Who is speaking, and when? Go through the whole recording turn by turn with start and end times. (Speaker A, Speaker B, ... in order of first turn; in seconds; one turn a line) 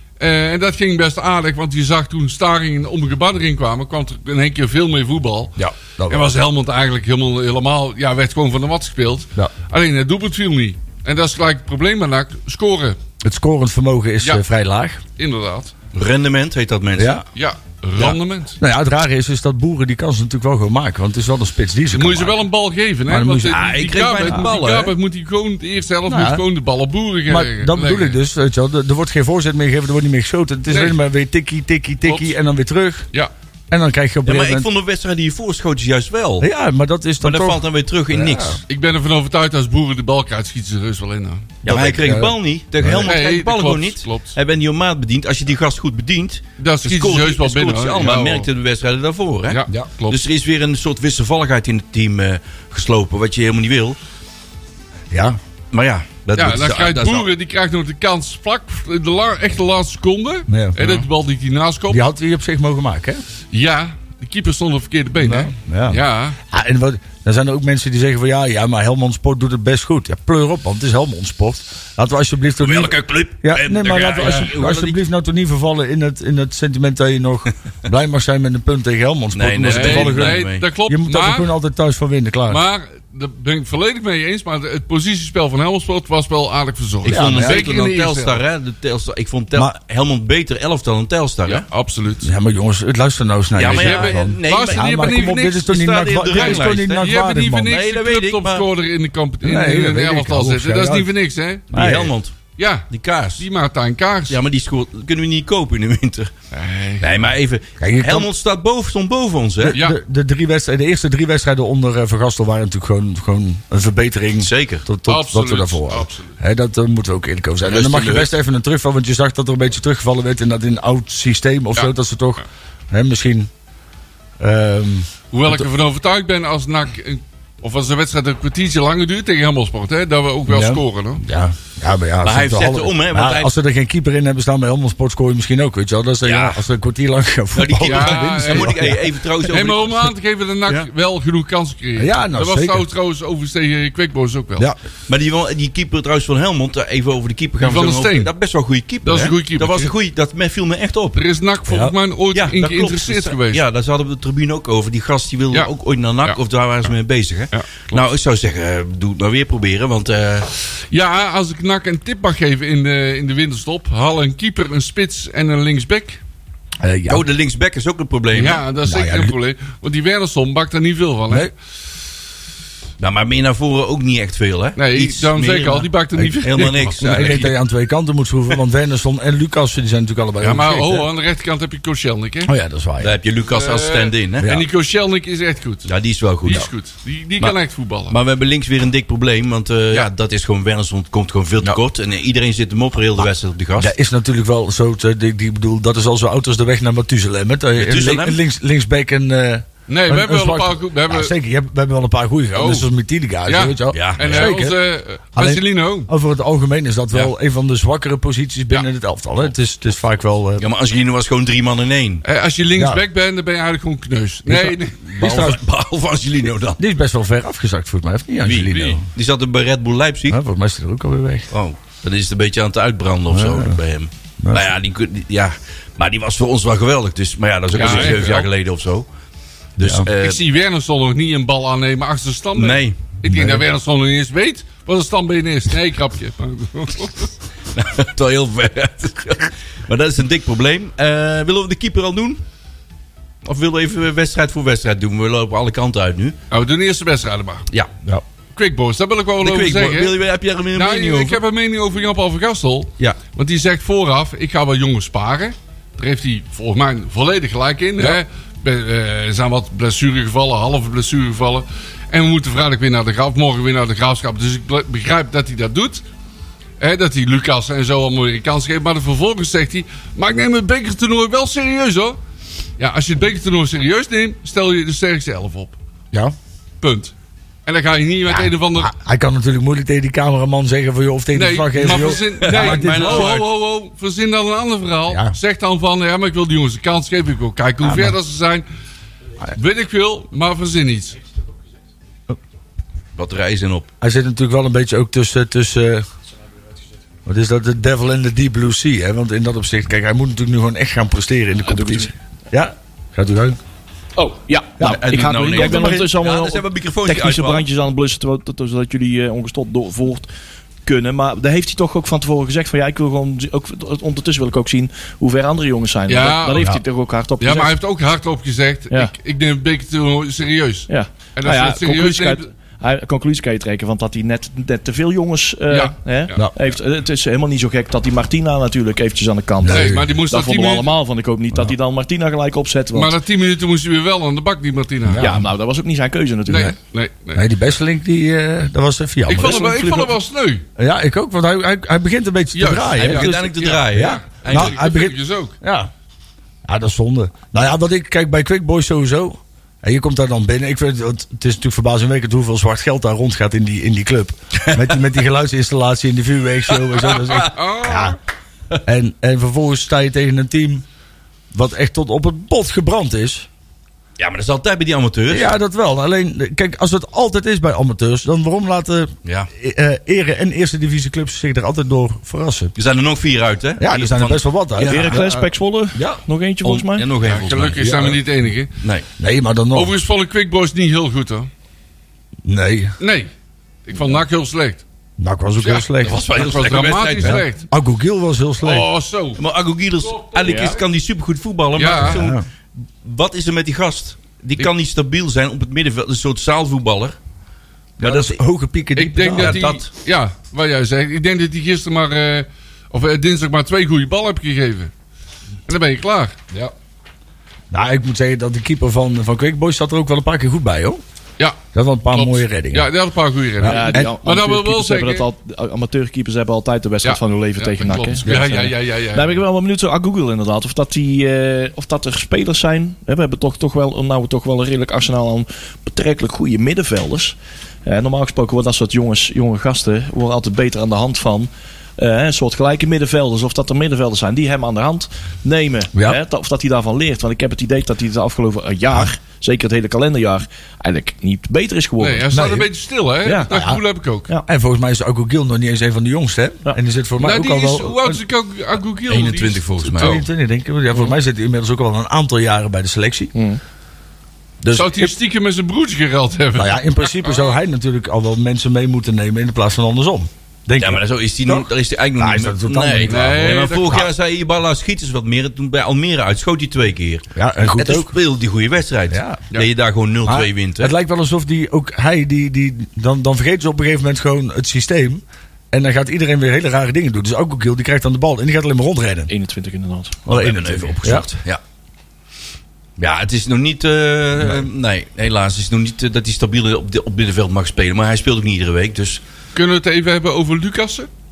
Speaker A: 0.2-5.6
Speaker B: 5.8-6.3
Speaker A: 6.1-13.0
Speaker B: 13.2-15.0
Speaker A: 15.2-15.7
Speaker C: 15.9-17.2
Speaker B: 17.0-17.2
Speaker A: 17.4-18.6
Speaker B: 18.6-22.4
Speaker A: 21.9-28.2
Speaker B: 23.1-23.7
Speaker C: 23.5-24.9
Speaker B: 26.1-26.4
Speaker B: 27.3-33.1
Speaker A: 30.7-31.0
Speaker A: 32.0-32.3
Speaker B: 33.7-34.7
Speaker C: 34.3-36.5
Speaker B: 36.4-38.6
Speaker C: 37.2-38.6
Speaker A: 38.7-41.5
Speaker B: 41.6-43.1
Speaker C: 41.6-54.0
Speaker A: 42.9-44.4
Speaker A: 46.6-48.5
Speaker A: 49.5-50.2
Speaker B: 55.1-55.4
Speaker C: 55.7-57.3
Speaker A: 56.4-62.0
Speaker B: 60.5-61.1
Speaker B: 61.9-63.2
Speaker A: 63.5-66.4
Speaker B: 65.2-82.6
Speaker C: 72.6-75.0
Speaker C: 79.3-80.7
Speaker A: 79.7-81.5
Speaker A: 82.5-88.4
Speaker C: 87.0-91.7
Speaker B: 87.0-87.7
Speaker A: 91.5-92.3
Speaker B: 92.2-97.8
Speaker C: 93.6-97.1
Speaker A: 93.6-95.7
Speaker A: 96.3-101.7
Speaker C: 97.7-98.7
Speaker B: 99.4-101.1
Speaker B: 101.7-102.1
Speaker C: 101.7-102.4
Speaker A: 102.6-104.4
Speaker C: 102.9-103.4
Speaker C: 104.3-106.3
Speaker A: 106.5-107.1
Speaker C: 107.0-109.8
Speaker B: 107.8-108.3
Speaker B: 109.6-123.5
Speaker A: 109.7-110.0
Speaker C: 114.4-114.9
Speaker A: 115.1-116.4
Speaker C: 117.7-118.3
Speaker B: 124.4-125.6
Speaker A: 125.3-131.2
Speaker B: 130.5-139.0
Speaker C: 132.2-133.5
Speaker C: 136.2-136.6
Speaker C: 137.5-140.1
Speaker A: 137.8-138.8
Speaker A: 139.4-144.7
Speaker B: 142.0-142.9
Speaker C: 145.1-151.2
Speaker A: 147.6-148.3
Speaker A: 149.0-149.9
Speaker A: 151.2-153.6
Speaker B: 151.7-151.9
Speaker C: 152.3-160.5
Speaker A: 157.5-158.0
Speaker A: 160.9-166.2
Speaker B: 166.8-167.2
Speaker C: 167.1-168.7
Speaker A: 168.3-171.5
Speaker B: 168.8-169.3
Speaker C: 173.0-177.5
Speaker A: 174.8-177.5
Speaker B: 177.0-181.1
Speaker A: 180.4-182.5
Speaker B: 182.5-183.2
Speaker C: 183.0-184.5
Speaker A: 183.5-185.9
Speaker B: 184.4-184.7
Speaker C: 185.9-186.7
Speaker A: 186.4-188.2
Speaker C: 188.1-193.9
Speaker B: 193.8-204.8
Speaker C: 197.8-198.4
Speaker A: 199.9-201.3
Speaker A: 202.5-202.9
Speaker A: 203.5-206.1
Speaker C: 203.9-204.6
Speaker B: 205.4-210.7
Speaker C: 210.6-212.2
Speaker A: 212.2-215.5
Speaker B: 212.8-213.0
Speaker B: 214.5-215.6
Speaker C: 215.1-216.8
Speaker B: 216.8-219.1
Speaker C: 218.4-220.4
Speaker B: 220.3-221.5
Speaker C: 221.5-229.1
Speaker B: 223.3-223.8
Speaker B: 224.4-224.8
Speaker A: 227.7-228.5
Speaker B: 227.7-228.2
Speaker C: 229.8-230.4
Speaker B: 229.8-230.1
Speaker A: 230.1-237.3
Speaker C: 232.6-233.0
Speaker B: 233.3-233.6
Speaker C: 237.7-242.4
Speaker C: 243.4-246.4
Speaker A: 246.5-247.7
Speaker A: 248.6-250.2
Speaker C: 249.4-251.4
Speaker A: 250.7-266.0
Speaker A: 266.8-272.2
Speaker A: 272.8-275.8
Speaker A: 276.8-277.1
Speaker A: 277.7-278.9
Speaker B: 278.3-283.3
Speaker A: 281.3-288.6
Speaker C: 282.4-283.5
Speaker B: 285.1-285.4
Speaker B: 287.8-288.1
Speaker A: 289.5-291.2
Speaker C: 293.2-293.9
Speaker B: 294.0-296.0
Speaker B: 297.3-303.6
Speaker D: 301.7-302.1
Speaker D: 304.2-310.3
Speaker B: 304.8-306.1
Speaker C: 304.8-307.6
Speaker D: 310.9-317.7
Speaker A: 316.1-316.7
Speaker A: 317.4-322.4
Speaker D: 320.9-333.2
Speaker A: 325.7-326.4
Speaker B: 329.6-330.1
Speaker A: 329.7-330.9
Speaker A: 332.9-335.3
Speaker B: 335.1-335.5
Speaker D: 335.2-336.8
Speaker A: 336.5-337.4
Speaker B: 337.3-339.9
Speaker A: 339.3-340.6
Speaker D: 339.4-340.1
Speaker B: 340.8-345.9
Speaker A: 342.5-345.5
Speaker C: 343.0-344.8
Speaker B: 346.7-358.2
Speaker C: 357.1-357.5
Speaker A: 357.4-358.2
Speaker B: 358.9-360.8
Speaker B: 361.5-363.5
Speaker C: 364.2-365.5
Speaker B: 365.3-372.7
Speaker C: 372.8-375.1
Speaker B: 373.8-376.2
Speaker D: 374.8-377.1
Speaker C: 376.6-378.2
Speaker A: 377.2-378.8
Speaker B: 377.8-378.2
Speaker B: 379.2-379.9
Speaker A: 379.7-381.5
Speaker B: 382.4-382.9
Speaker A: 383.0-383.3
Speaker A: 383.9-384.8
Speaker B: 385.2-386.2
Speaker A: 385.6-387.7
Speaker C: 386.0-387.4
Speaker B: 387.2-388.9
Speaker A: 388.6-389.4
Speaker C: 389.4-397.2
Speaker A: 390.0-390.8
Speaker D: 390.4-390.8
Speaker A: 391.8-392.3
Speaker B: 391.9-392.4
Speaker B: 398.0-399.6
Speaker C: 398.0-398.4
Speaker A: 398.9-404.9
Speaker C: 399.3-399.9
Speaker A: 405.7-406.4
Speaker B: 407.7-411.0
Speaker B: 411.7-412.9
Speaker A: 412.1-415.3
Speaker B: 413.6-414.1
Speaker D: 413.6-442.3
Speaker A: 417.0-419.4
Speaker B: 418.3-418.5
Speaker B: 435.9-436.2
Speaker A: 442.0-444.3
Speaker B: 442.3-442.7
Speaker D: 443.2-443.5
Speaker B: 443.5-443.8
Speaker B: 444.5-448.2
Speaker A: 447.2-450.2
Speaker C: 449.1-450.2
Speaker B: 449.9-453.3
Speaker D: 453.4-453.6
Speaker B: 454.6-455.1
Speaker A: 454.7-457.4
Speaker B: 456.5-464.1
Speaker C: 460.8-470.9
Speaker A: 463.0-464.1
Speaker B: 467.4-468.1
Speaker B: 469.1-469.4
Speaker B: 470.2-479.3
Speaker D: 479.3-480.2
Speaker B: 480.3-481.3
Speaker C: 480.3-481.6
Speaker C: 483.0-489.2
Speaker B: 484.4-484.7
Speaker A: 489.5-491.1